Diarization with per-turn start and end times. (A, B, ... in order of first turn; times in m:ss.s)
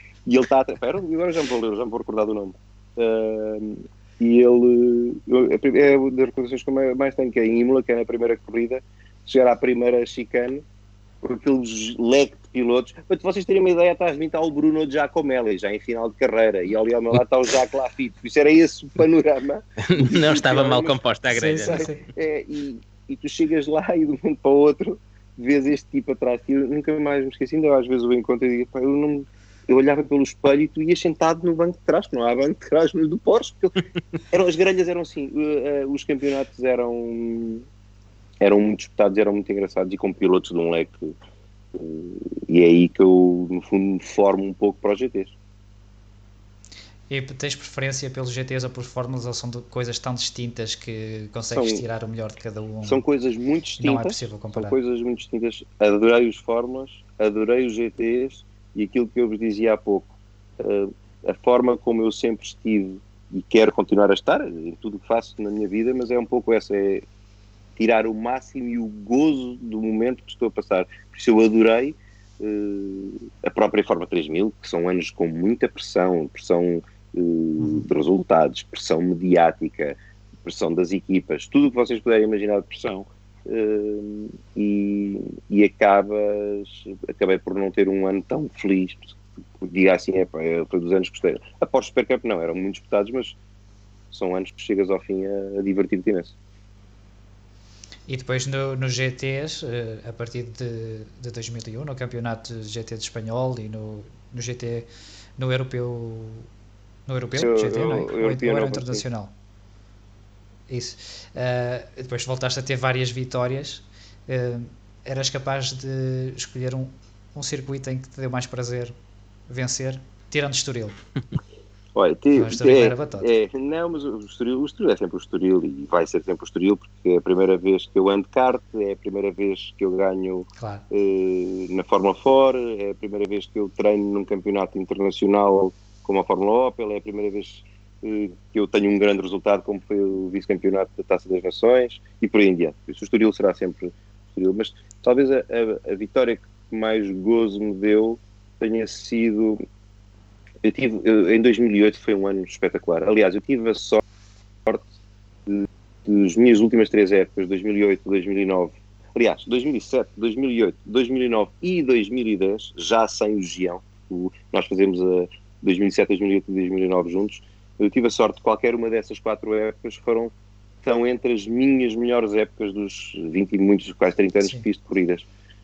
0:00.2-0:10.6 A
0:11.2-0:21.0 A
0:19.9-0:21.8 B
0:21.3-0:22.0 C
0:21.6-0:33.7 A
0:34.3-0:37.6 A
0:38.4-0:41.1 A
0:41.7-0:45.3 A
0:47.1-0:53.0 C
0:51.5-0:51.8 A
0:52.8-1:07.0 A
0:53.8-0:54.8 C
1:07.8-1:33.4 A
1:17.6-1:17.9 C
1:34.1-1:36.3 A
1:38.1-1:44.9 C
1:45.4-1:46.5 C
1:47.1-1:49.3 C
1:47.4-1:49.0 A
1:50.7-1:58.9 C
1:59.5-2:01.0 C
2:01.9-2:29.6 A
2:02.3-2:03.3 C
2:30.6-2:34.0 A
2:35.4-2:50.3 A
2:50.8-2:55.2 A